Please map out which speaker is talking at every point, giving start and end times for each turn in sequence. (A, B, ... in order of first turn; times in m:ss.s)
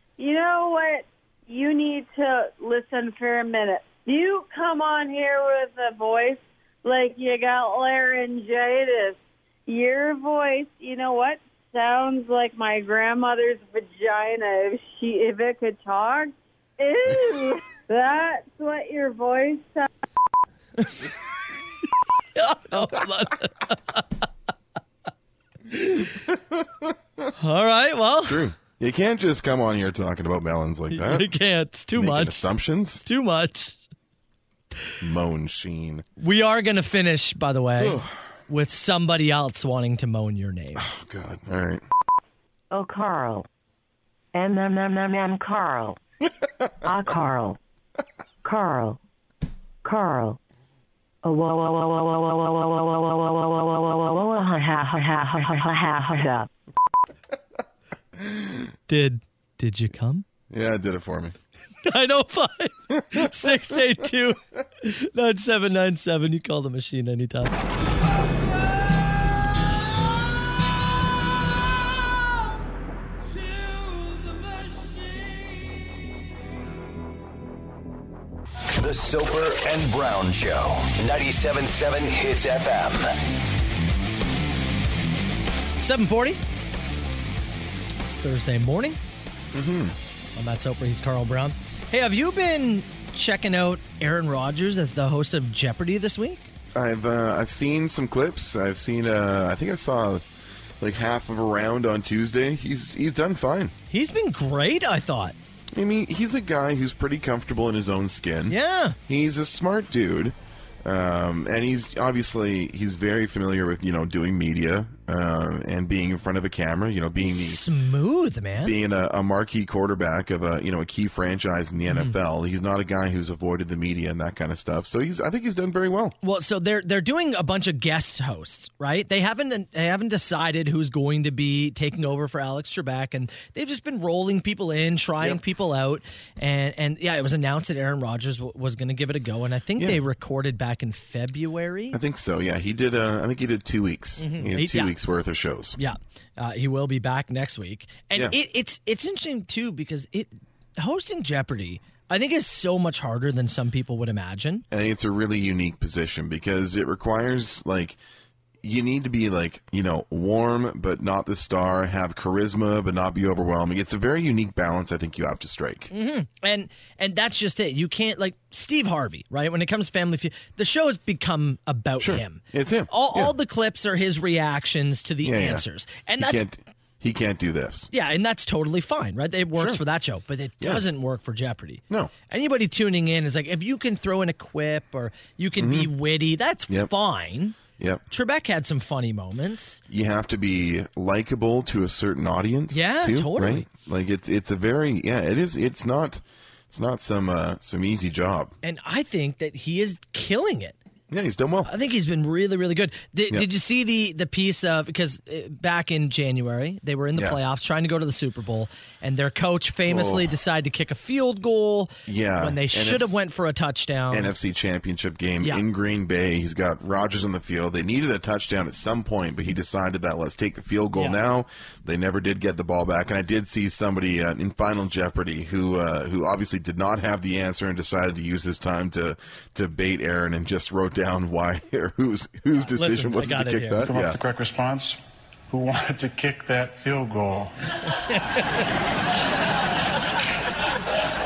0:00.2-0:19.9 A
0:22.4-0:24.1 B
0:25.7-0:26.1 B
0:26.5-0:26.8 C
0:27.4-0:28.5 B
0:28.3-0:31.3 C
0:30.9-0:33.8 B
0:31.9-0:33.0 C
0:35.0-0:36.0 C
0:36.2-0:40.9 B
0:37.8-0:38.2 C
0:40.8-0:41.8 C
0:42.7-0:43.5 D
0:44.3-0:46.0 D
0:46.8-0:47.6 D
0:48.4-0:49.0 D
0:49.8-0:50.4 D
0:51.2-0:56.5 D
0:58.2-0:58.7 C
0:58.9-1:00.2 B
1:00.5-1:01.4 C
1:01.8-1:07.6 B
1:03.1-1:03.8 C
1:18.8-1:23.1 E
1:25.8-1:26.4 B
1:28.1-1:29.0 B
1:29.5-1:30.0 C
1:30.4-1:36.5 B
1:36.8-1:40.2 C
1:40.8-1:43.7 C
1:43.9-1:45.4 B
1:45.7-1:57.7 C
1:48.5-1:49.0 B
1:57.2-1:58.8 B
1:58.6-2:06.2 C
2:01.9-2:02.2 B
2:06.2-2:22.0 B
2:21.9-2:25.8 C
2:24.2-2:24.9 B
2:25.8-2:34.6 B
2:34.7-2:38.0 C
2:38.6-2:45.9 C
2:45.9-2:56.5 B
2:52.0-2:53.3 C
2:55.2-2:55.6 C
2:56.2-2:57.9 C
2:57.9-3:07.6 B
2:59.6-2:59.8 C
3:00.6-3:00.8 C
3:05.6-3:05.9 C
3:07.8-3:08.0 C
3:08.1-3:09.8 B
3:09.9-3:18.5 C
3:12.7-3:13.7 B
3:18.6-3:20.8 B
3:21.1-3:21.7 C
3:21.6-3:34.3 B
3:29.9-3:30.3 C
3:32.1-3:33.1 C
3:34.1-3:54.2 C
3:40.9-3:41.2 B
3:52.6-3:53.9 B
3:53.8-3:57.5 F